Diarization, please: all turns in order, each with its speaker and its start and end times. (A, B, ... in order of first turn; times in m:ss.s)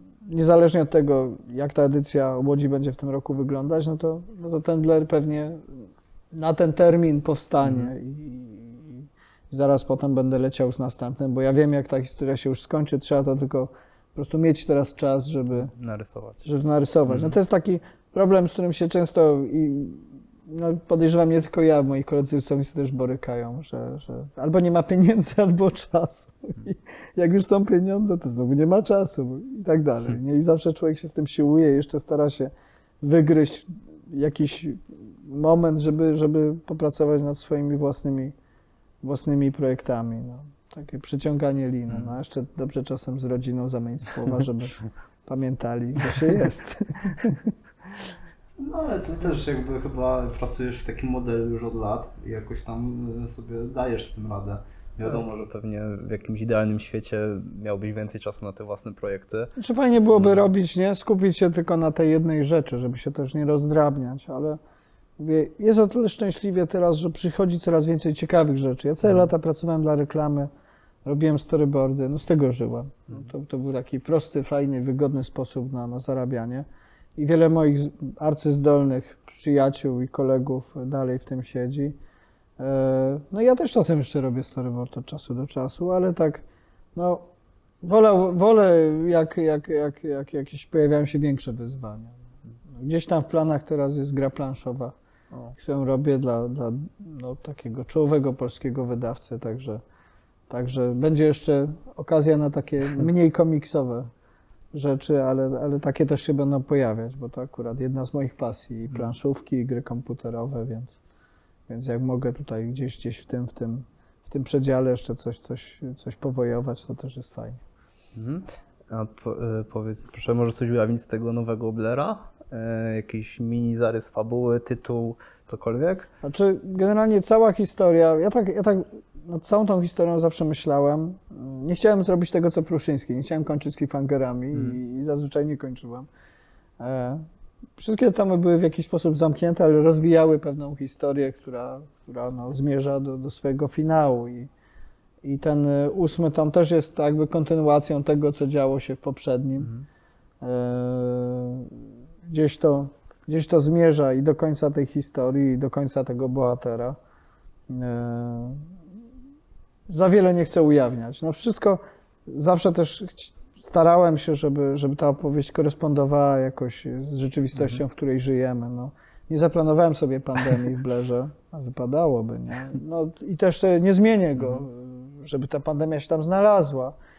0:00.2-0:15.7 A
0:07.6-0:07.9 B
0:15.7-0:16.4 B
0:16.4-0:32.5 A
0:17.1-0:17.3 B
0:33.0-0:38.3 A
0:39.0-0:47.5 A
0:41.9-0:42.1 B
0:48.6-0:59.5 B
0:59.6-1:04.6 A
1:05.2-1:10.5 A
1:11.0-1:22.0 A
1:22.6-1:26.4 A
1:26.9-1:27.2 A
1:27.8-1:32.2 A
1:32.7-1:39.8 A
1:40.5-1:44.1 A
1:44.7-1:51.0 A
1:51.7-1:57.6 A
1:58.1-2:06.1 B
2:06.2-2:16.1 A
2:16.8-2:17.2 A
2:17.8-2:24.5 A
2:25.2-2:29.7 A
2:30.4-2:37.0 A
2:37.7-2:38.7 A
2:39.9-2:56.9 A